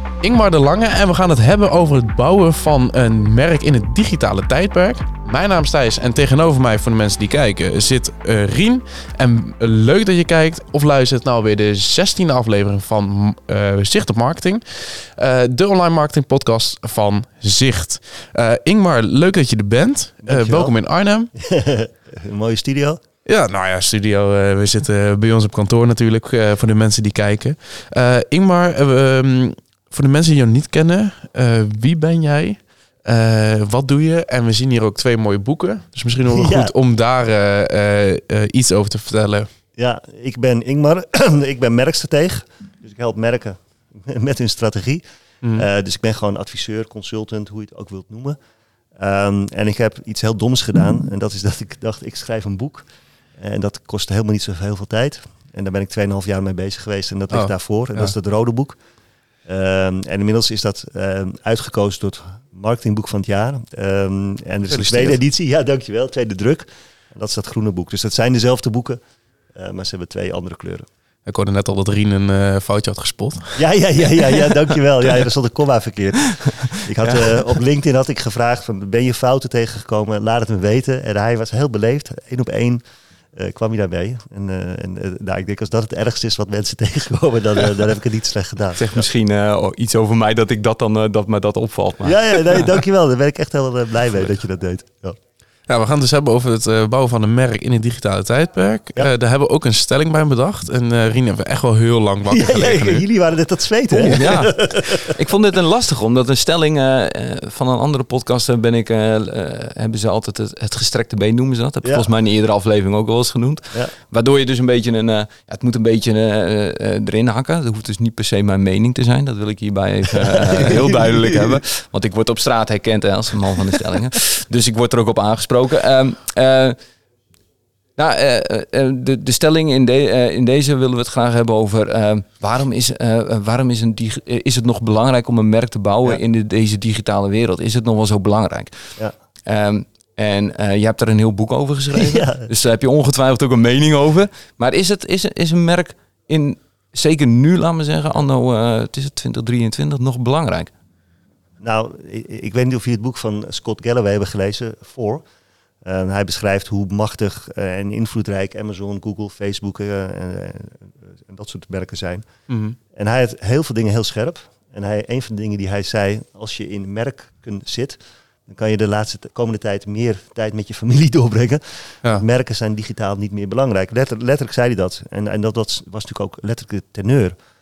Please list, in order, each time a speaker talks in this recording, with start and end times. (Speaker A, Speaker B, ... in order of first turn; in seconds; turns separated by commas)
Speaker A: 0.2-21.3, Speaker B: 20.2-20.7, Speaker B: 21.4-23.0, Speaker A: 23.2-39.5, Speaker B: 36.3-36.7, Speaker B: 39.8-48.4, Speaker B: 49.0-52.9, Speaker B: 53.4-58.8, Speaker A: 57.3-58.1, Speaker B: 59.5-69.0, Speaker A: 64.7-65.2, Speaker B: 69.5-70.9, Speaker A: 71.2-73.6, Speaker B: 73.5-89.0, Speaker C: 88.8-92.2, Speaker B: 92.0-95.2, Speaker A: 95.7-103.0, Speaker B: 102.3-105.1, Speaker A: 104.0-104.5, Speaker C: 104.0-126.8, Speaker B: 120.3-121.6, Speaker C: 128.0-138.9, Speaker C: 139.4-150.7, Speaker B: 141.9-142.5, Speaker B: 151.6-155.2, Speaker B: 155.8-162.3, Speaker A: 162.5-162.8, Speaker B: 162.9-177.3